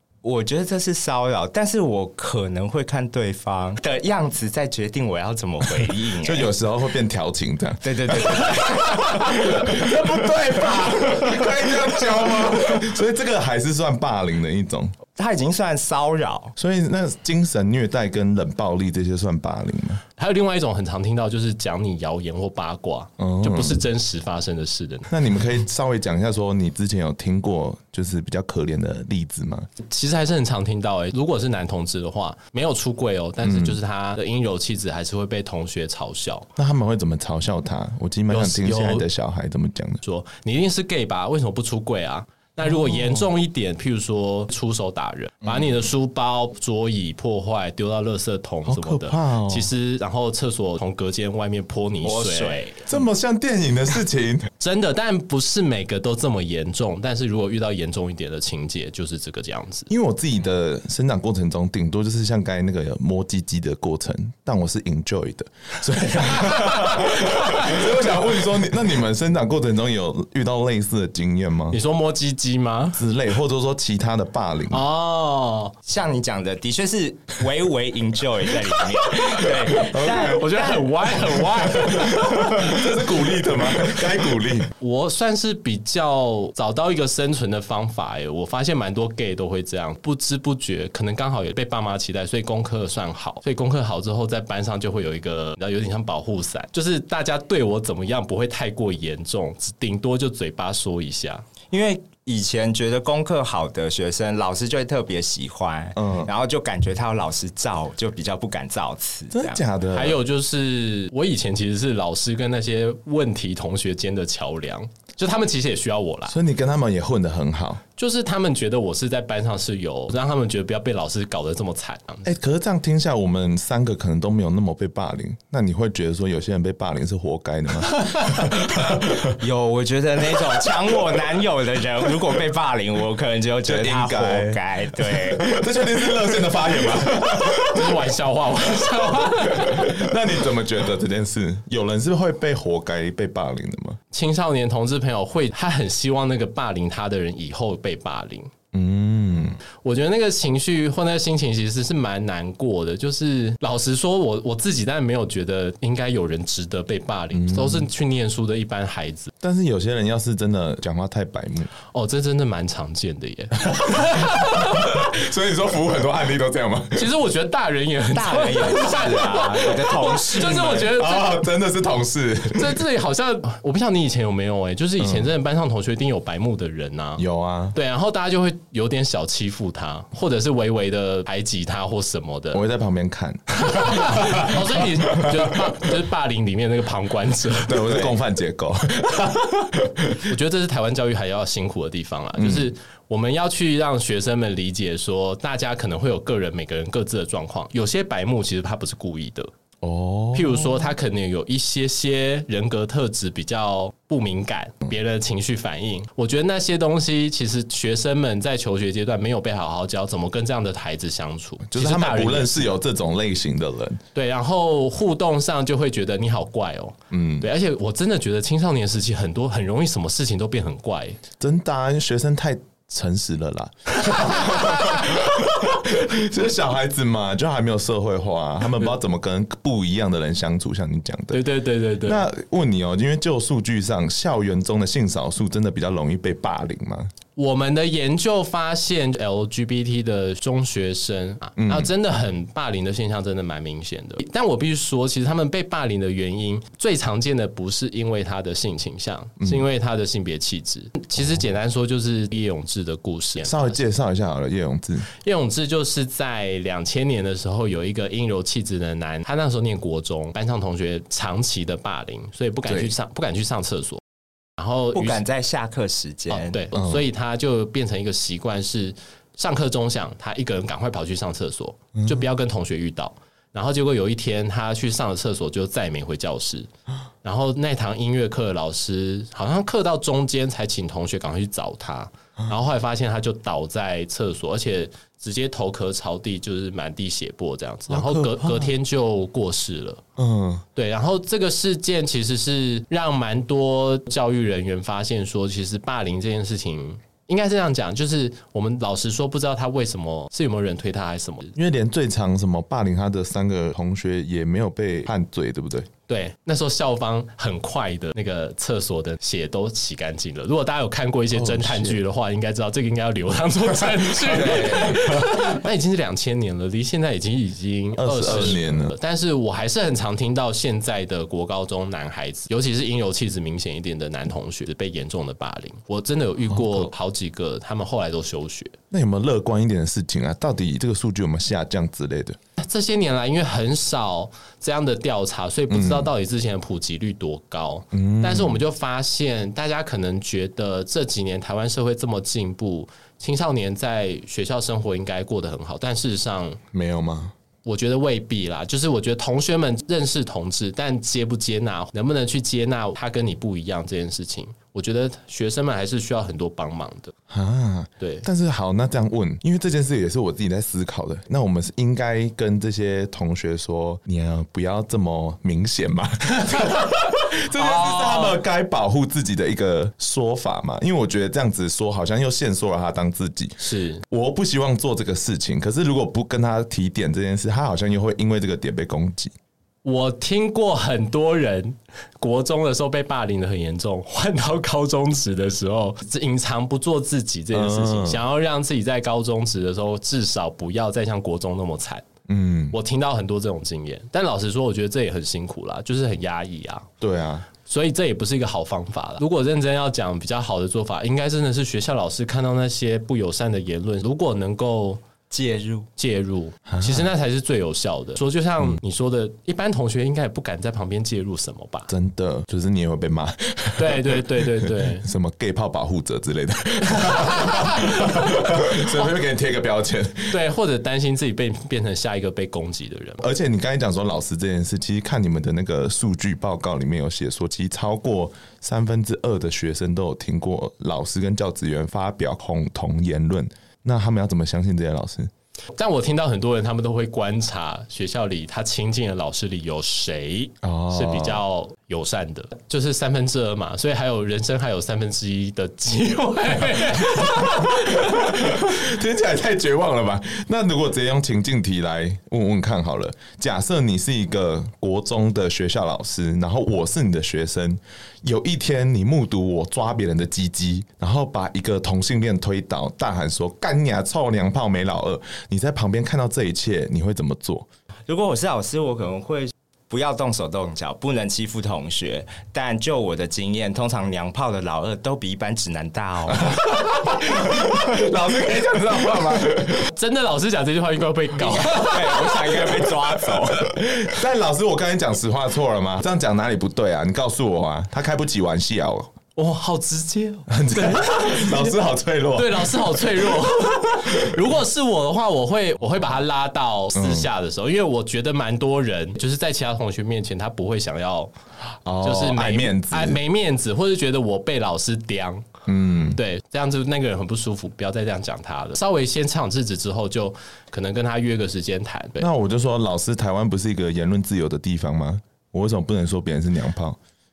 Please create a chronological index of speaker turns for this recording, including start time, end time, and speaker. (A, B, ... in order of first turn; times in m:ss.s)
0:00.2-0:06.5 A
0:06.2-0:14.9 B
0:07.8-0:09.4 A
0:15.1-0:16.5 A
0:16.6-0:20.0 B
0:20.2-0:25.1 C
0:23.2-0:23.8 B
0:25.1-0:29.7 B
0:29.8-0:36.5 C
0:33.4-0:33.8 B
0:36.6-0:40.0 B
0:38.3-0:39.1 C
0:40.0-0:52.7 C
0:42.6-0:43.3 B
0:48.6-0:49.7 B
0:52.0-0:52.9 A
0:52.9-0:54.5 B
0:54.6-0:59.9 C
0:59.9-1:11.8 B
1:06.4-1:06.8 C
1:11.7-1:13.0 C
1:12.9-1:14.8 B
1:14.7-1:15.7 C
1:15.8-1:20.9 A
1:19.4-1:22.9 C
1:19.7-1:20.3 B
1:21.8-1:24.7 B
1:24.8-1:41.4 C
1:41.7-1:49.6 A
1:46.0-1:46.3 B
1:49.3-1:50.2 B
1:49.9-1:56.3 C
1:56.3-1:57.8 B
1:58.0-2:02.3 C
2:02.2-2:09.4 B
2:09.4-2:15.6 A
2:13.6-2:17.9 B
2:17.2-2:20.1 C
2:19.5-2:24.0 B
2:24.1-2:28.5 C
2:28.7-2:29.6 B
2:29.7-2:39.3 C
2:37.3-2:37.9 B
2:39.4-2:41.7 B
2:41.9-2:44.9 C
2:43.7-2:47.1 B
2:46.9-2:51.4 C
2:48.1-2:50.9 A
2:50.6-2:52.8 B
2:52.5-2:57.2 C
2:55.0-2:55.3 B
2:57.2-2:57.8 B
2:57.7-3:02.6 C
3:02.5-3:05.5 B
3:03.6-3:08.1 C
3:07.6-3:10.2 B
3:10.2-3:19.5 C
3:12.4-3:12.7 B
3:19.8-3:20.9 B
3:20.3-3:32.8 C
3:31.7-3:34.0 B
3:34.1-3:41.2 C
3:37.1-3:37.5 B
3:41.4-3:51.4 B
3:51.3-3:52.2 C
3:52.0-3:57.1 B
3:57.4-4:13.8 C
4:01.6-4:01.9 B
4:09.4-4:09.6 B
4:13.4-4:15.1 B
4:15.1-4:24.0 C
4:22.7-4:22.9 B
4:24.6-4:25.2 C
4:24.9-4:26.6 A
4:26.3-4:36.7 C
4:26.7-4:27.0 B
4:32.0-4:32.2 B
4:37.2-4:50.0 C
4:47.9-4:48.7 B
4:50.2-4:50.6 B
4:50.7-5:01.5 C
5:01.6-5:05.9 B
5:06.1-5:28.8 C
5:11.3-5:12.0 B
5:14.2-5:15.5 B
5:18.0-5:18.9 B
5:26.5-5:26.9 B
5:28.9-5:32.4 B
5:32.6-5:46.6 C
5:35.7-5:36.1 B
5:37.9-5:38.6 B
5:46.7-5:47.3 B
5:47.6-5:57.1 C
5:57.3-6:19.3 B
5:58.0-5:58.2 C
6:06.6-6:08.4 C
6:13.6-6:14.0 C
6:19.8-6:32.0 C
6:27.5-6:28.2 B
6:32.3-6:32.8 B
6:32.7-6:36.9 C
6:37.0-6:37.5 B
6:37.6-6:45.0 C
6:45.3-6:45.9 A
6:46.0-6:51.9 C
6:46.7-6:47.1 B
6:51.9-7:00.4 B
6:53.8-6:55.1 C
6:57.0-6:59.1 C
7:00.3-7:03.2 C
7:03.2-7:15.3 B
7:15.7-7:28.6 C
7:20.6-7:21.4 B
7:27.0-7:47.7 B
7:48.1-7:56.6 A
7:56.5-7:59.9 B
7:59.7-8:02.8 C
8:01.6-8:03.7 A
8:03.6-8:09.1 B
8:09.4-8:11.8 C
8:10.5-8:13.2 B
8:12.3-8:21.3 C
8:16.9-8:17.3 B
8:21.8-8:23.2 B
8:22.0-8:25.5 C
8:25.7-8:26.2 B
8:26.1-8:32.3 C
8:32.2-8:37.0 B